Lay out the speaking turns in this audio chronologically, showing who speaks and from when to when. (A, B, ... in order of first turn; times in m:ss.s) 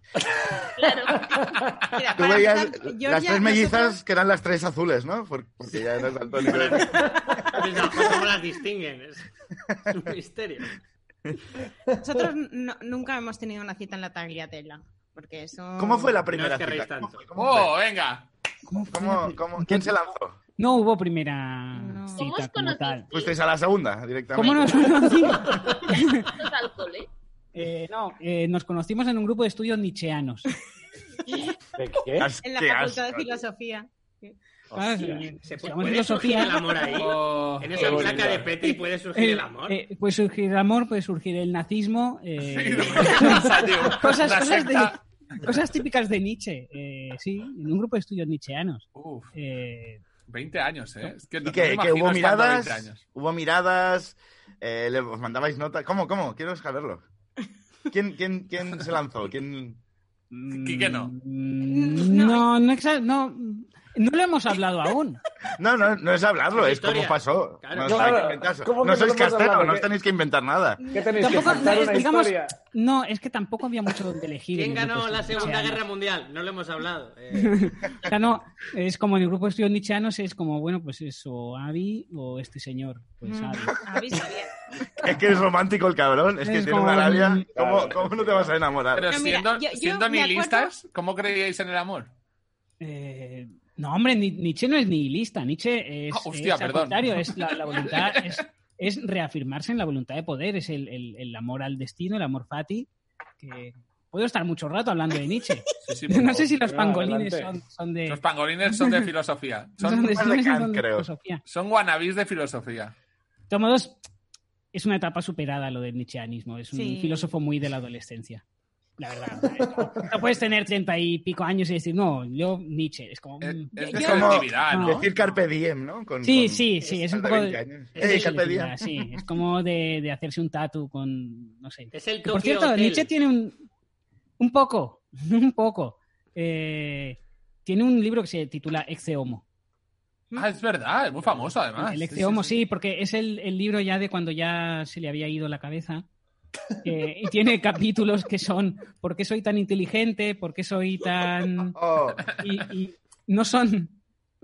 0:00.8-0:01.6 A
0:01.0-0:01.9 B
0:01.9-0:04.0 C
0:02.1-0:07.1 D
0:06.4-0:09.3 E
0:06.9-0:07.4 B
0:09.9-0:10.7 E
0:12.0-0:16.2 C
0:15.8-0:17.7 D
0:16.3-0:17.2 E
0:17.4-0:18.3 F
0:18.7-0:19.9 G
0:18.9-0:20.4 D
0:20.6-0:23.0 G
0:21.7-0:22.2 C
0:22.1-0:23.4 A
0:23.1-0:25.0 D
0:24.3-0:26.3 G
0:24.4-0:27.1 A
0:27.5-0:30.5 G
0:31.3-0:31.6 C
0:31.8-0:32.3 B
0:32.2-0:33.4 D
0:32.4-0:34.3 C
0:34.7-0:35.2 B
0:34.7-0:36.7 G
0:35.4-0:39.8 E
0:36.9-0:38.2 F
0:37.8-0:38.5 B
0:38.6-0:50.0 G
0:42.4-0:45.0 F
0:48.9-0:49.3 F
0:50.2-0:53.0 F
0:51.4-0:57.0 D
0:57.9-0:59.8 D
1:00.3-1:05.2 G
1:00.5-1:01.1 F
1:01.7-1:02.5 C
1:05.6-1:10.8 D
1:06.5-1:08.4 E
1:07.8-1:09.9 B
1:10.8-1:11.8 C
1:10.9-1:12.6 B
1:11.2-1:15.8 G
1:14.5-1:17.9 E
1:17.3-1:23.8 G
1:23.2-1:24.6 C
1:25.0-1:29.1 D
1:26.4-1:27.5 G
1:27.5-1:28.5 B
1:28.9-1:32.1 F
1:29.1-1:30.7 C
1:32.8-1:42.9 G
1:36.1-1:38.4 F
1:43.4-1:49.0 G
1:45.8-1:46.5 F
1:46.6-1:47.5 B
1:48.1-1:50.1 F
1:49.8-1:51.4 G
1:49.9-1:51.1 D
1:51.4-1:52.9 F
1:53.5-1:54.0 G
1:54.7-1:58.4 G
1:56.7-1:57.3 C
1:59.0-2:05.0 G
1:59.6-2:00.1 B
2:03.4-2:05.2 F
2:03.8-2:04.4 C
2:04.0-2:09.2 D
2:06.2-2:13.6 G
2:07.9-2:08.4 E
2:11.9-2:13.1 E
2:14.4-2:19.4 G
2:20.3-2:22.5 F
2:21.8-2:26.0 G
2:26.8-2:31.8 G
2:31.8-2:32.2 D
2:32.2-2:32.5 F
2:32.4-2:34.0 G